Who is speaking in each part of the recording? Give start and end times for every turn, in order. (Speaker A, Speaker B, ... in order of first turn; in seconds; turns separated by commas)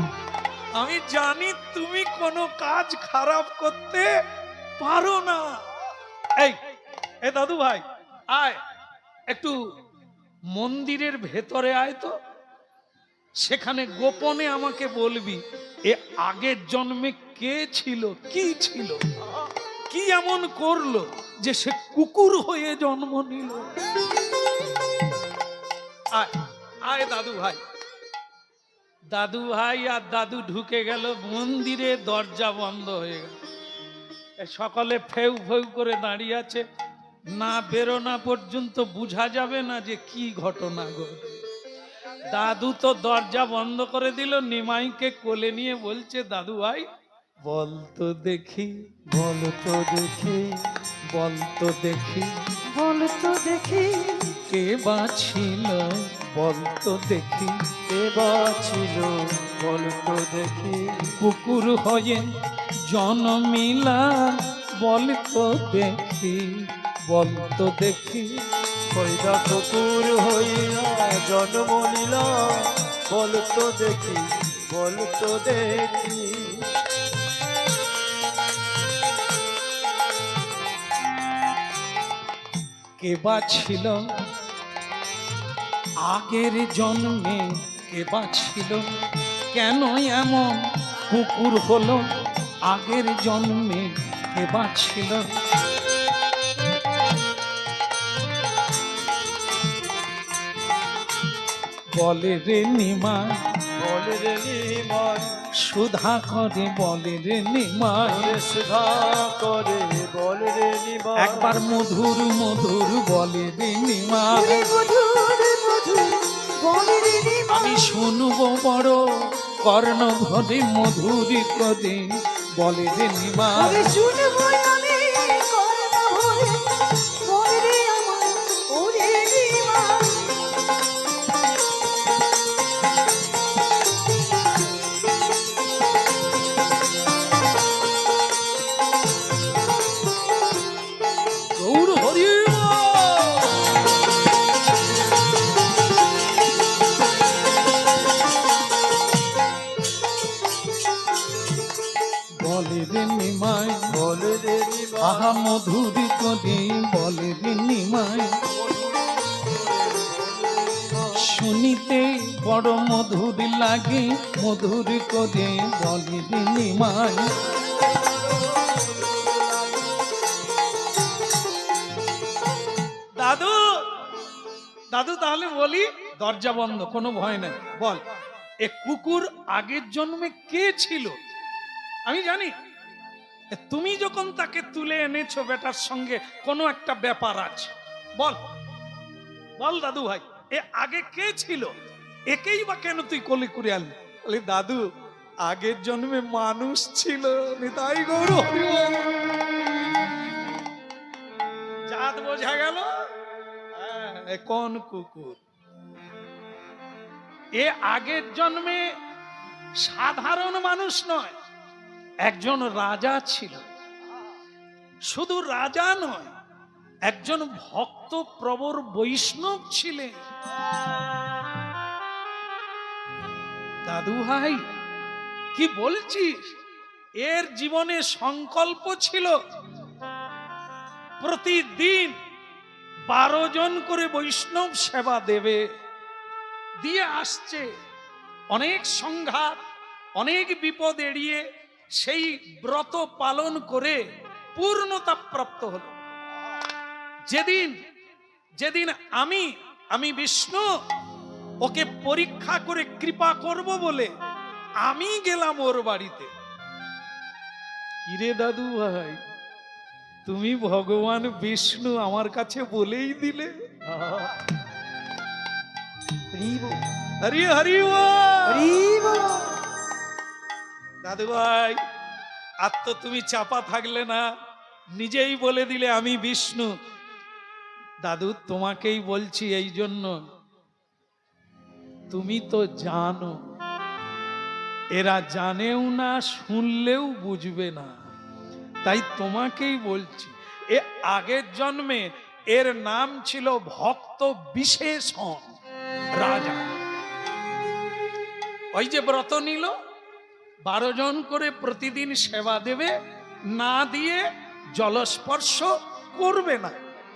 Speaker A: 0.8-4.1, Speaker A: 4.8-5.5, Speaker A: 7.2-8.6, Speaker A: 9.3-9.6, Speaker A: 10.5-12.2, Speaker A: 13.4-19.0, Speaker A: 19.9-23.7, Speaker A: 26.9-27.6, Speaker A: 29.1-33.4, Speaker A: 34.4-36.6, Speaker A: 37.3-41.4, Speaker A: 42.3-46.9, Speaker A: 47.5-48.9, Speaker B: 49.1-50.6, Speaker A: 51.1-52.3, Speaker C: 52.7-54.4, Speaker A: 54.5-57.5, Speaker B: 57.9-61.1, Speaker A: 61.2-62.3, Speaker A: 62.9-68.4, Speaker B: 68.9-76.7, Speaker A: 83.0-84.0, Speaker A: 86.0-88.9, Speaker A: 89.5-92.1, Speaker A: 92.7-95.3, Speaker A: 102.0-103.4, Speaker B: 103.8-105.4, Speaker A: 105.6-108.4, Speaker B: 108.0-111.6, Speaker A: 111.2-114.7, Speaker C: 114.3-117.9, Speaker A: 117.5-119.0, Speaker A: 119.6-122.1, Speaker A: 122.6-123.9, Speaker C: 123.5-130.3, Speaker A: 141.6-143.6, Speaker A: 152.4-153.9, Speaker B: 153.9-155.3, Speaker A: 155.0-158.3, Speaker B: 158.6-161.2, Speaker A: 161.2-167.4, Speaker A: 173.2-173.8, Speaker A: 174.9-178.0, Speaker A: 178.6-181.2, Speaker A: 182.1-182.5, Speaker A: 183.5-188.4, Speaker A: 189.6-191.7, Speaker A: 192.3-194.8, Speaker A: 195.4-199.2, Speaker A: 201.9-202.9, Speaker A: 203.8-205.4, Speaker A: 207.6-208.9, Speaker A: 209.8-211.3, Speaker A: 212.3-213.6, Speaker A: 215.1-216.3, Speaker A: 217.1-220.2, Speaker A: 223.9-224.6, Speaker A: 225.5-226.5, Speaker A: 227.2-229.4, Speaker A: 231.2-232.2, Speaker A: 233.1-235.7, Speaker A: 236.8-237.7, Speaker A: 238.5-239.6, Speaker A: 240.2-241.4, Speaker A: 242.0-244.0, Speaker A: 244.6-245.9, Speaker A: 247.3-247.8, Speaker A: 248.6-250.7, Speaker A: 251.6-254.1, Speaker A: 254.8-256.3, Speaker A: 258.0-259.2, Speaker A: 260.2-263.5, Speaker B: 264.0-264.3, Speaker C: 266.3-266.8, Speaker A: 267.2-268.8, Speaker C: 268.5-269.6, Speaker A: 271.0-271.8, Speaker A: 272.6-274.2, Speaker A: 275.0-276.7, Speaker A: 278.0-280.1, Speaker A: 282.1-283.4, Speaker A: 284.9-287.9, Speaker A: 288.8-295.5, Speaker A: 296.2-296.7, Speaker A: 298.7-299.7, Speaker A: 300.7-302.9, Speaker A: 303.5-306.8